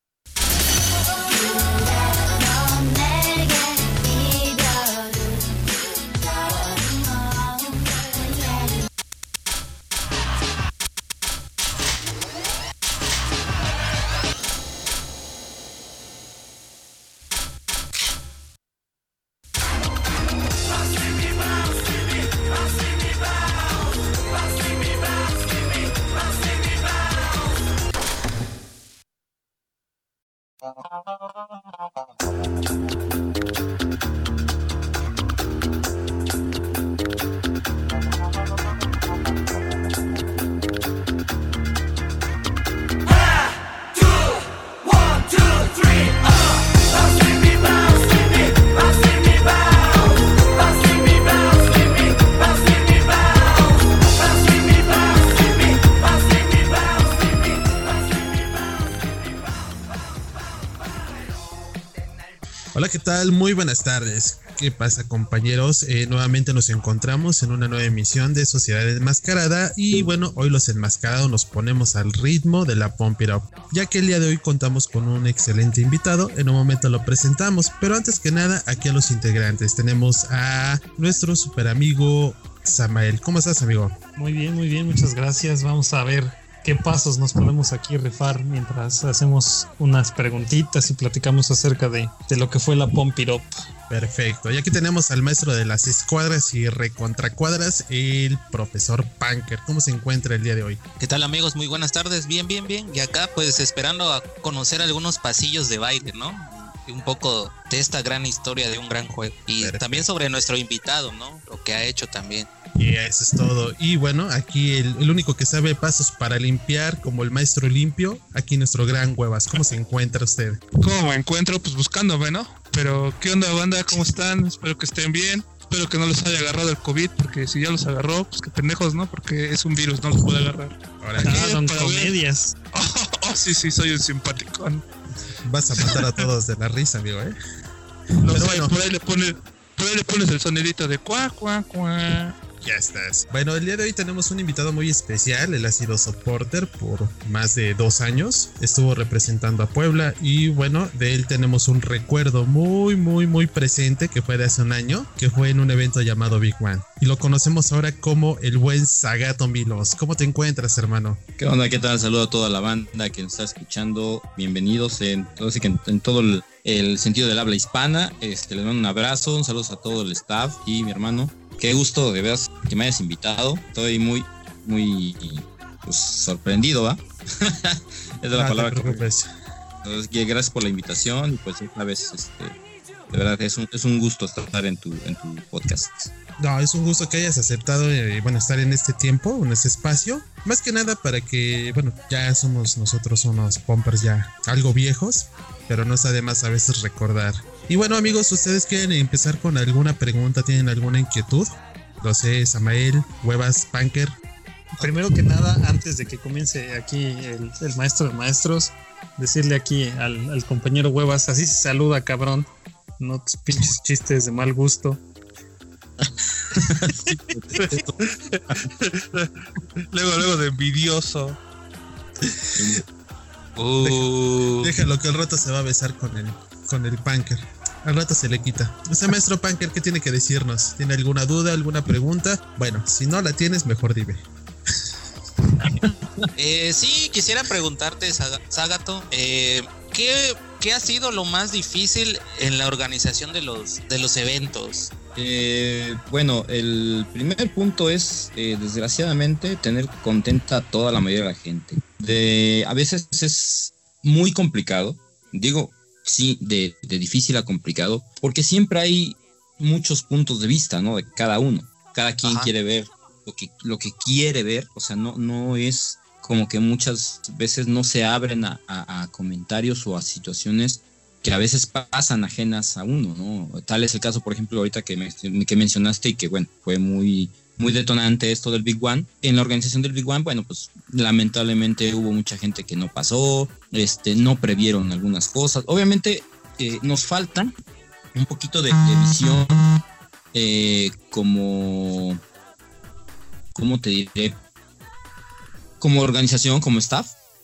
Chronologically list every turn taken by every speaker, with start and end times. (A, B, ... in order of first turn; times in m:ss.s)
1:02.8-1:24.0 A
1:24.2-1:33.5 B
1:33.9-1:40.8 A
1:41.0-1:52.5 C
1:49.6-1:50.0 A
1:52.8-2:00.6 A
2:00.8-2:12.1 D
2:11.0-2:11.5 A
2:11.2-2:12.5 B
2:12.7-2:14.8 D
2:15.4-2:17.4 A
2:15.8-2:16.3 D
2:18.2-2:22.4 D
2:18.3-2:18.7 A
2:22.6-2:41.2 A
2:41.4-2:59.1 E
2:58.3-2:59.3 A
2:59.8-3:02.6 E
3:03.1-3:06.1 E
3:06.4-3:21.5 A
3:22.0-3:24.1 A
3:24.8-3:32.5 B
3:33.0-3:35.0 B
3:37.3-3:37.8 E
3:37.6-3:41.4 D
3:43.6-3:44.8 C
3:44.6-3:54.2 A
3:56.4-4:04.9 C
4:05.2-4:47.5 E
4:22.2-4:22.5 C
4:48.1-4:49.6 E
4:50.3-4:52.2 E
4:53.5-4:54.4 E
4:55.8-4:57.1 E